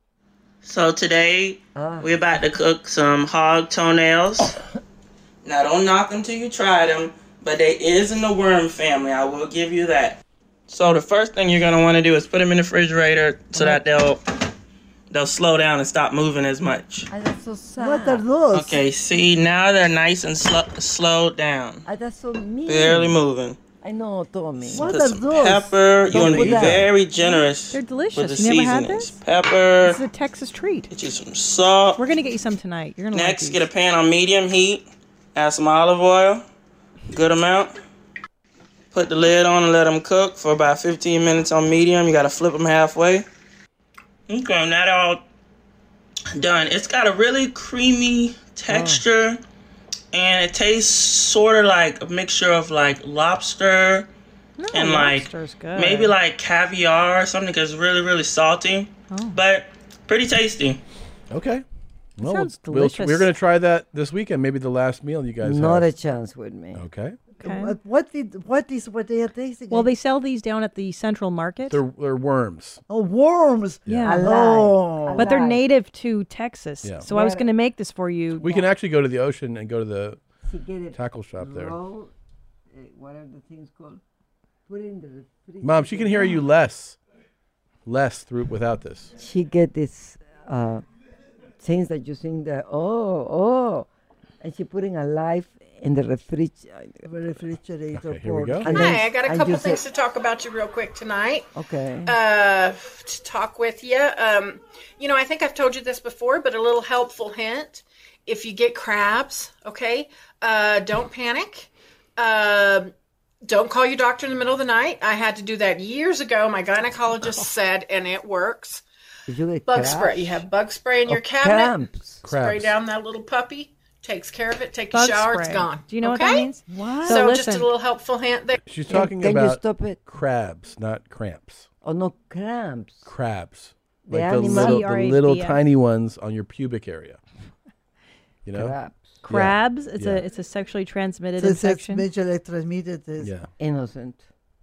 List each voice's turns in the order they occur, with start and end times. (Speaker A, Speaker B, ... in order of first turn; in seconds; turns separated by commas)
Speaker A: 0.6-4.5, Speaker B: 1.7-2.1, Speaker A: 5.4-14.2, Speaker B: 13.5-13.8, Speaker A: 15.1-17.1, Speaker B: 17.1-18.2, Speaker C: 17.8-18.8, Speaker A: 18.5-21.8, Speaker B: 21.8-23.2, Speaker A: 22.6-23.6, Speaker B: 23.8-25.0, Speaker C: 24.7-26.7, Speaker A: 24.7-30.0, Speaker B: 26.1-26.8, Speaker D: 27.7-29.1, Speaker D: 29.8-30.9, Speaker A: 30.9-32.0, Speaker D: 32.0-33.6, Speaker A: 33.1-36.4, Speaker A: 37.1-37.7, Speaker A: 38.9-43.2, Speaker A: 44.3-45.2, Speaker A: 46.3-49.4, Speaker B: 48.7-49.0, Speaker A: 50.1-54.1, Speaker D: 54.6-56.1, Speaker A: 54.7-60.8, Speaker D: 59.1-59.4, Speaker E: 61.3-61.6, Speaker E: 62.2-65.9, Speaker D: 62.2-63.3, Speaker B: 65.4-66.8, Speaker E: 66.7-67.2, Speaker D: 67.4-67.7, Speaker C: 67.4-69.9, Speaker D: 69.7-71.8, Speaker E: 71.7-72.8, Speaker C: 72.9-75.3, Speaker D: 73.9-74.2, Speaker B: 74.0-75.6, Speaker D: 75.2-78.7, Speaker B: 77.0-77.5, Speaker E: 78.3-80.2, Speaker B: 80.5-82.1, Speaker E: 80.9-81.8, Speaker B: 82.7-84.0, Speaker B: 84.7-86.4, Speaker E: 85.6-87.0, Speaker E: 87.8-89.1, Speaker B: 89.2-90.8, Speaker B: 91.6-93.9, Speaker B: 94.4-97.0, Speaker C: 97.0-98.9, Speaker E: 97.9-98.7, Speaker B: 98.6-99.8, Speaker F: 98.7-101.5, Speaker B: 101.5-102.1, Speaker F: 102.0-112.9, Speaker F: 113.5-118.8, Speaker B: 119.3-120.4, Speaker F: 119.7-126.5, Speaker B: 121.1-122.2, Speaker E: 122.2-122.7, Speaker D: 124.9-127.7, Speaker C: 126.8-127.2, Speaker F: 127.0-128.6, Speaker E: 128.6-131.7, Speaker B: 128.9-130.0, Speaker B: 131.8-133.1, Speaker E: 133.1-137.2, Speaker B: 134.0-134.9, Speaker D: 134.4-135.6, Speaker E: 138.4-138.7, Speaker B: 138.5-139.2, Speaker D: 139.2-142.1, Speaker E: 139.3-140.2, Speaker C: 141.4-143.3, Speaker E: 143.2-143.5, Speaker B: 143.6-144.2